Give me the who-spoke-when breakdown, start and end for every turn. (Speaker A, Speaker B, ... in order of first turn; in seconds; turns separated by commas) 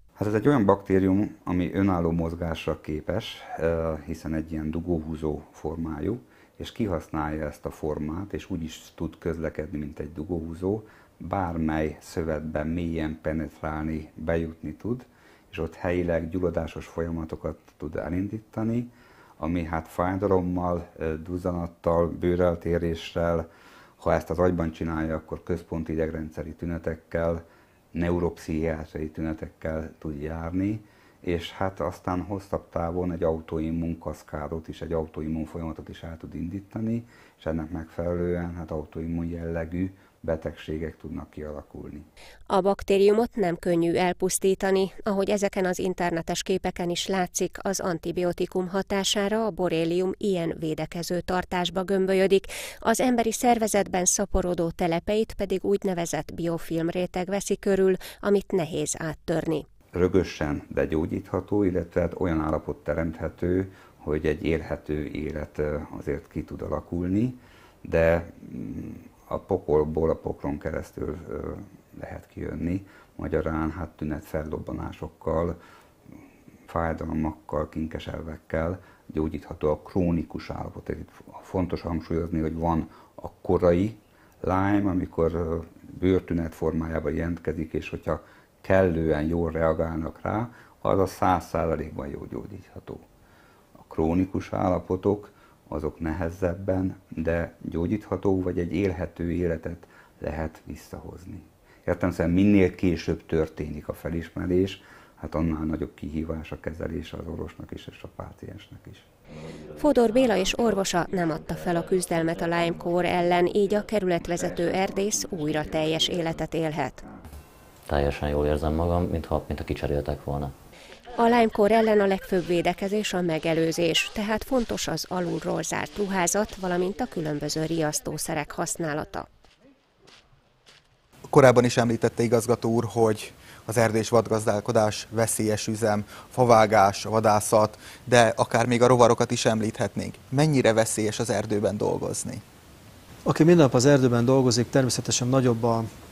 Speaker A: 0.2-23.5, Speaker A: 24.0-42.1, Speaker B: 42.5-59.7, Speaker A: 59.9-75.6, Speaker A: 76.7-93.0, Speaker A: 93.8-109.1, Speaker B: 109.8-117.0, Speaker C: 117.9-120.5, Speaker B: 121.2-129.3, Speaker D: 131.3-142.4, Speaker E: 143.2-145.9